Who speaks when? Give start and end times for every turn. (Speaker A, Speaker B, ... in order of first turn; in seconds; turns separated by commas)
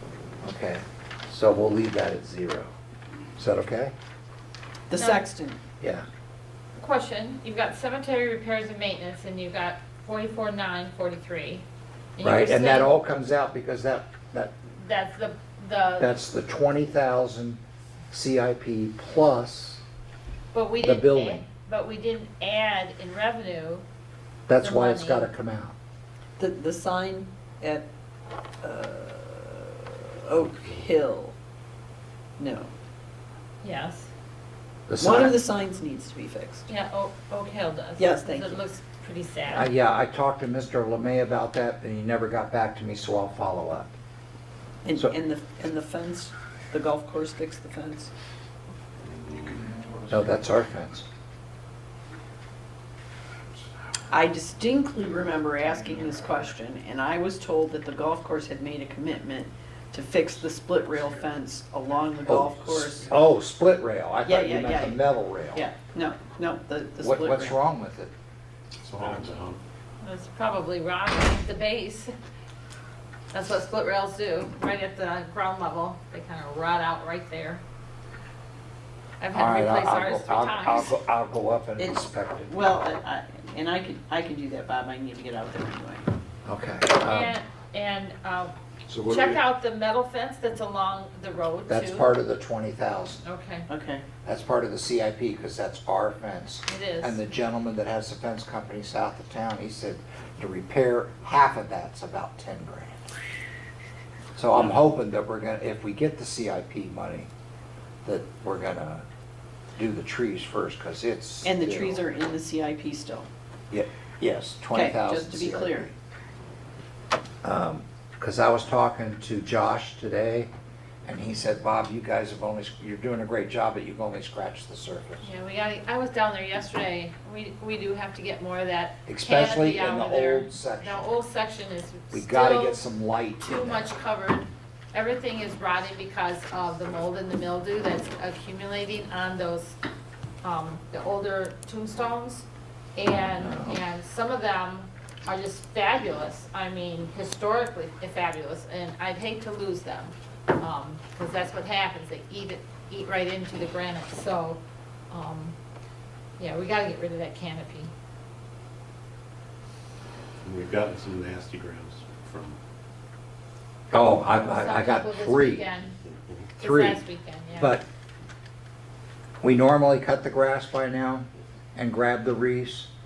Speaker A: 0.4-2.7, Speaker A: 3.4-3.9, Speaker B: 4.9-5.6, Speaker C: 4.9-5.3, Speaker A: 5.8-6.1, Speaker C: 6.8-11.7, Speaker C: 12.2-12.9, Speaker A: 12.2-14.5, Speaker C: 14.8-16.1, Speaker A: 16.0-19.8, Speaker C: 20.5-23.8, Speaker A: 20.8-21.4, Speaker A: 24.5-25.8, Speaker C: 24.6-25.3, Speaker B: 26.4-27.9, Speaker B: 28.6-31.4, Speaker B: 32.4-32.7, Speaker C: 33.6-34.1, Speaker A: 34.9-35.3, Speaker B: 35.0-36.7, Speaker C: 36.7-39.7, Speaker B: 38.0-38.6, Speaker A: 39.5-43.9, Speaker B: 44.8-48.1, Speaker D: 49.0-50.0, Speaker A: 50.1-51.1, Speaker B: 54.1-63.1, Speaker A: 62.2-65.7, Speaker B: 64.2-67.6, Speaker A: 67.0-68.1, Speaker D: 68.8-69.6, Speaker C: 70.0-72.1, Speaker C: 73.3-77.6, Speaker C: 79.2-80.9, Speaker A: 79.3-82.5, Speaker B: 81.8-86.1, Speaker A: 86.5-87.4, Speaker C: 87.0-92.1, Speaker A: 88.9-89.4, Speaker A: 91.7-93.2, Speaker C: 93.2-93.7, Speaker B: 93.7-94.0, Speaker A: 94.2-103.1, Speaker C: 96.7-97.2, Speaker A: 104.3-107.3, Speaker A: 108.0-109.1, Speaker A: 109.8-112.0, Speaker B: 111.4-113.3, Speaker A: 113.7-115.9, Speaker B: 114.7-115.9, Speaker A: 117.4-120.5, Speaker A: 121.0-125.2, Speaker C: 125.2-132.8, Speaker A: 129.1-131.0, Speaker A: 132.1-133.9, Speaker C: 133.4-139.8, Speaker C: 140.4-155.6, Speaker A: 143.4-143.8, Speaker C: 156.4-157.9, Speaker D: 160.4-162.6, Speaker A: 163.9-165.7, Speaker C: 164.3-166.0, Speaker A: 166.6-167.0, Speaker C: 166.6-167.8, Speaker A: 167.6-167.8, Speaker A: 169.4-172.9